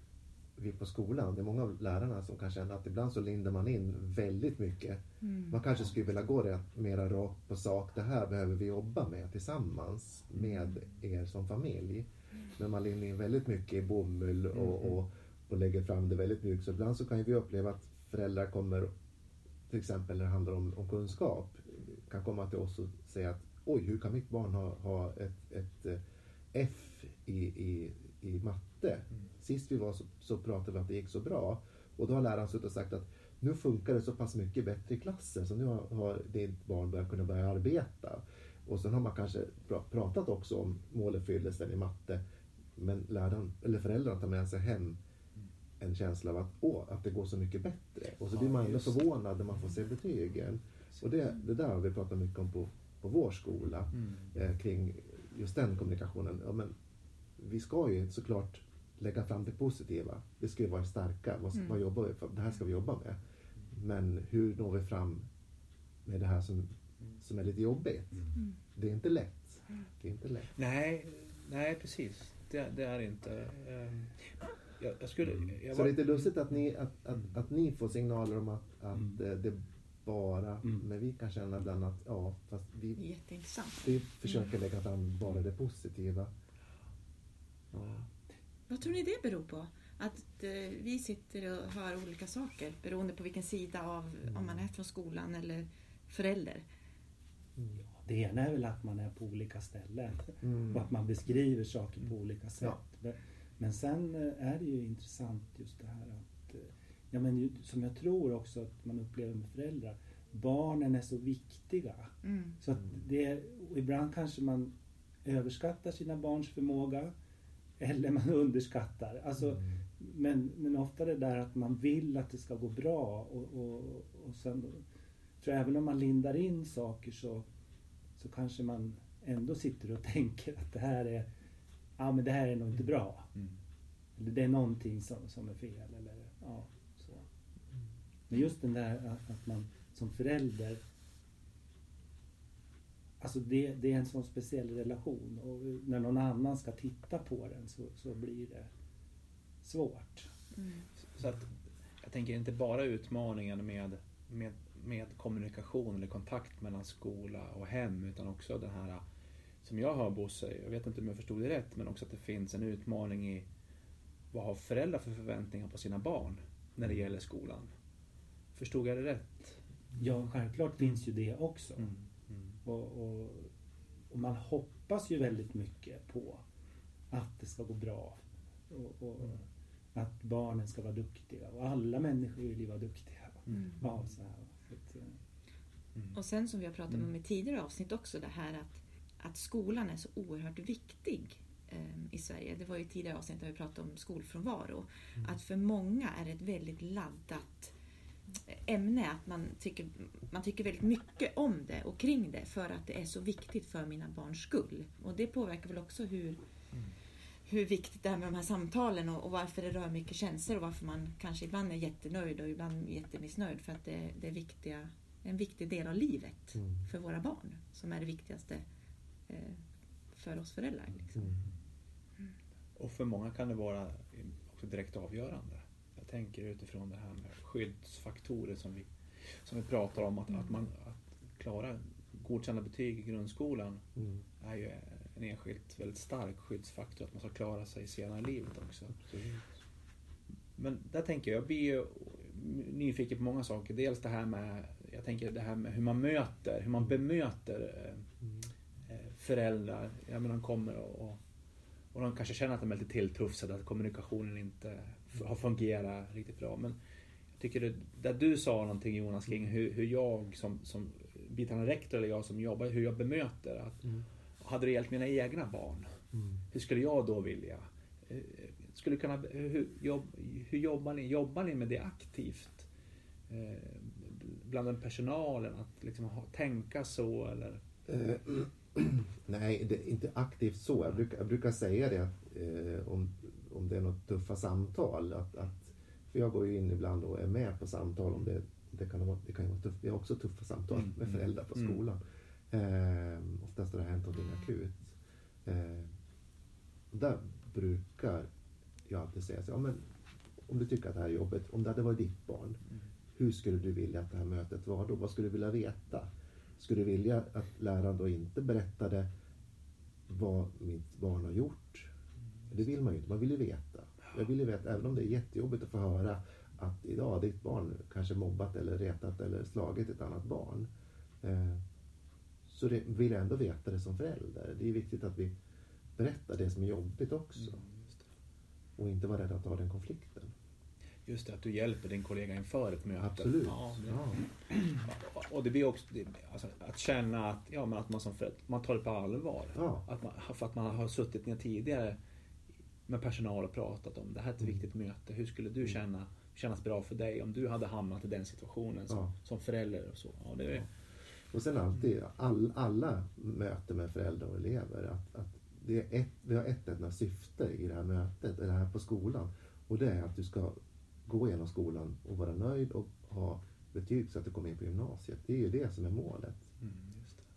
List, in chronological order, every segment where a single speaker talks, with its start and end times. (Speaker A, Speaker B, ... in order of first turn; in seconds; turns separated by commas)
Speaker A: 0.6-18.9, Speaker B: 5.2-5.6, Speaker A: 19.7-26.0, Speaker A: 26.5-42.2, Speaker A: 42.8-45.0, Speaker A: 45.8-56.7, Speaker C: 48.4-48.9, Speaker A: 57.4-63.2, Speaker B: 61.5-61.8, Speaker A: 63.7-65.3, Speaker A: 66.1-70.5, Speaker C: 70.6-76.3, Speaker A: 75.7-83.0, Speaker B: 83.0-84.0, Speaker A: 83.8-86.3, Speaker A: 87.7-88.1, Speaker B: 88.7-96.6, Speaker A: 94.3-94.7, Speaker D: 97.9-114.7, Speaker A: 100.4-100.8, Speaker B: 112.2-112.6, Speaker D: 115.2-117.1, Speaker D: 117.8-124.8, Speaker D: 125.4-127.5, Speaker D: 128.2-131.3, Speaker D: 132.0-133.3, Speaker D: 134.2-137.2, Speaker D: 138.3-140.8, Speaker D: 143.2-148.7, Speaker D: 149.6-150.3, Speaker B: 150.6-150.8, Speaker C: 151.2-159.0, Speaker C: 159.6-163.5, Speaker C: 164.3-167.7, Speaker C: 168.6-169.6, Speaker D: 170.0-171.9, Speaker D: 172.7-173.5, Speaker D: 174.1-176.4, Speaker D: 177.1-185.1, Speaker C: 183.5-183.8, Speaker B: 186.1-197.7, Speaker B: 198.5-206.4, Speaker B: 207.5-218.7, Speaker A: 216.6-216.9, Speaker B: 219.3-219.6, Speaker B: 220.1-221.3, Speaker C: 222.8-228.9, Speaker C: 229.4-233.8, Speaker A: 234.0-234.2, Speaker C: 234.4-239.0, Speaker A: 238.9-239.4, Speaker C: 240.6-248.1, Speaker C: 248.9-251.2, Speaker C: 251.9-256.8, Speaker C: 257.4-263.8, Speaker C: 264.4-265.9, Speaker A: 266.1-266.4, Speaker C: 266.5-272.7, Speaker C: 273.3-277.6, Speaker A: 277.9-294.9, Speaker C: 290.8-291.8, Speaker A: 295.4-295.9, Speaker A: 296.9-298.3, Speaker A: 298.9-299.8, Speaker A: 300.5-302.6, Speaker A: 303.2-309.1, Speaker A: 310.1-311.9, Speaker A: 312.5-320.7, Speaker A: 321.2-321.6, Speaker A: 322.5-325.3, Speaker A: 326.0-327.6, Speaker C: 327.4-328.1, Speaker A: 328.8-330.3, Speaker C: 331.1-342.0, Speaker A: 333.0-334.3, Speaker A: 339.6-339.9, Speaker C: 342.9-350.7, Speaker A: 351.3-366.4, Speaker C: 366.6-367.2